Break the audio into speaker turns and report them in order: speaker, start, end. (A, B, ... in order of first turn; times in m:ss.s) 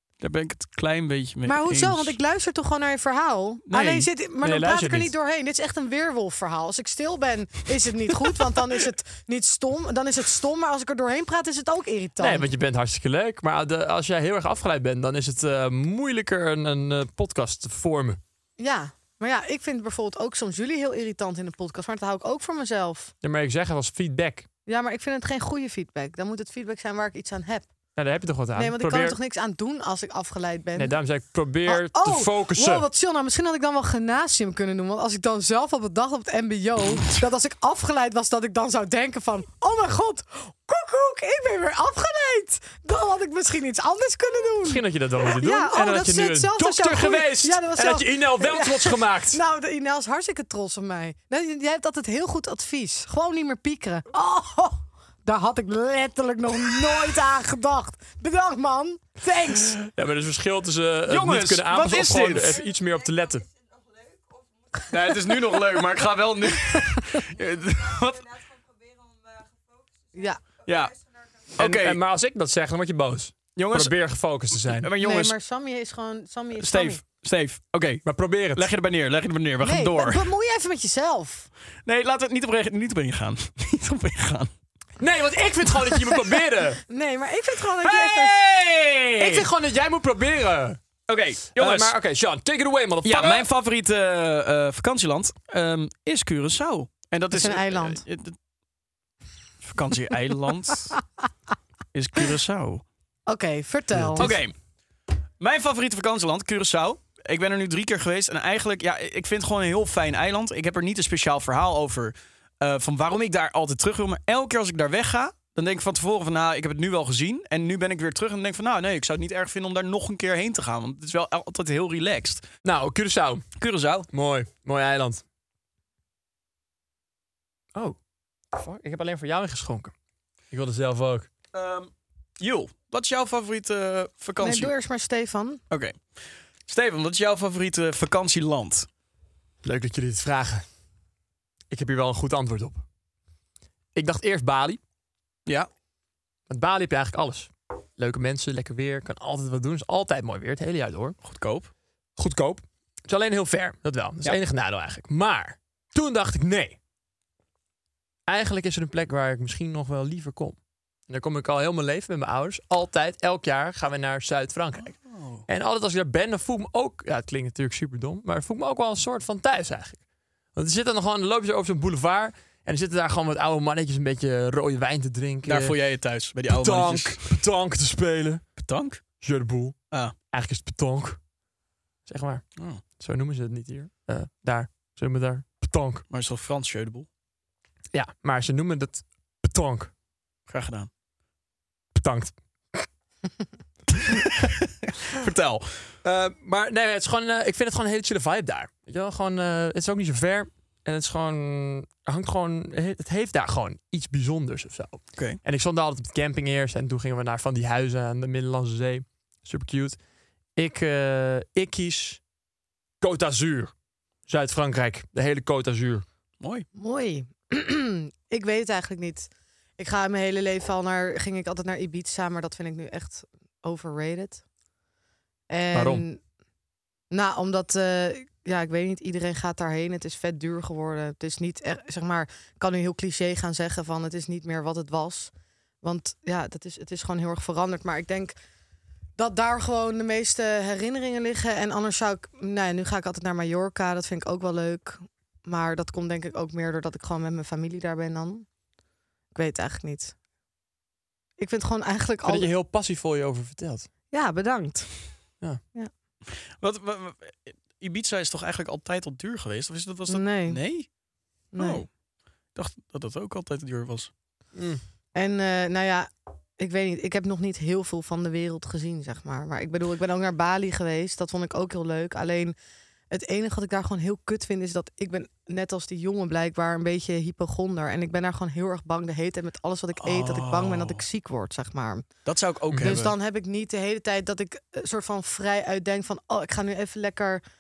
0:00.2-0:02.2 A
0:01.5-0:12.4 B
0:03.7-0:04.1 A
0:04.4-0:05.1 C
0:12.2-0:18.2 C
0:18.6-0:23.1 B
0:23.2-0:24.5 C
0:24.7-0:27.7 B
0:28.0-0:29.2 C
0:28.6-0:31.0 B
0:30.8-0:32.8 C
0:31.7-0:59.8 B
0:44.6-0:49.4 C
0:59.8-1:03.5 C
1:01.1-1:02.6 A
1:04.9-1:08.4 A
1:10.1-1:10.4 B
1:10.6-1:11.0 A
1:11.5-1:12.0 A
1:11.6-1:14.9 C
1:13.6-1:14.0 A
1:14.6-1:15.4 A
1:15.0-1:17.0 B
1:16.6-1:20.2 A
1:18.0-1:18.7 C
1:19.6-1:21.5 B
1:21.9-1:24.5 A
1:25.0-1:26.8 C
1:26.9-1:28.4 B
1:27.8-1:29.5 A
1:29.2-1:30.8 C
1:31.1-1:32.0 A
1:31.6-1:33.5 C
1:33.0-1:38.4 A
1:37.3-1:38.0 B
1:39.6-1:41.0 A
1:41.9-1:42.8 A
1:43.3-1:44.4 B
1:44.0-1:44.2 C
1:44.2-1:44.5 A
1:45.4-2:02.4 A
2:02.6-2:03.5 C
2:03.6-2:04.1 A
2:04.1-2:05.2 C
2:08.5-2:09.9 C
2:10.5-2:11.3 C
2:11.5-2:14.7 A
2:14.4-2:15.6 B
2:15.7-2:16.0 A
2:16.7-2:18.9 A
2:19.6-2:20.7 C
2:21.7-2:22.8 C
2:24.0-2:24.8 C
2:26.5-2:31.2 C
2:31.2-2:31.7 A
2:32.2-2:36.8 C
2:38.3-2:40.6 C
2:41.1-2:45.0 C
2:44.9-2:45.4 A
2:45.5-2:50.0 C
2:50.5-2:55.8 C
2:55.4-2:57.3 A
2:56.5-2:58.4 C
2:58.6-2:59.0 A
2:59.2-2:59.8 C
3:00.3-3:01.2 C
3:02.1-3:02.4 C
3:03.0-3:06.0 C
3:06.1-3:07.1 A
3:07.9-3:09.9 C
3:10.5-3:10.9 A
3:12.0-3:12.9 C
3:14.0-3:15.8 A
3:16.0-3:30.0 C
3:30.6-3:32.2 C
3:33.0-3:33.7 C
3:34.3-3:36.0 C
3:36.4-3:36.7 A
3:36.8-3:44.4 B
3:45.5-3:46.2 B
3:45.7-3:46.0 C
3:47.1-3:58.4 B
3:59.2-4:08.5 B
4:09.3-4:10.2 B
4:11.4-4:12.5 B
4:12.2-4:13.9 C
4:14.1-4:15.0 B
4:16.6-4:20.9 A
4:20.1-4:20.6 B
4:21.5-4:21.9 B
4:21.6-4:21.9 A
4:22.6-4:24.1 A
4:24.6-4:24.8 C
4:25.2-4:32.6 B
4:33.1-4:42.1 B
4:40.0-4:41.0 A
4:42.3-4:43.1 A
4:42.7-4:43.0 C
4:42.8-4:47.4 B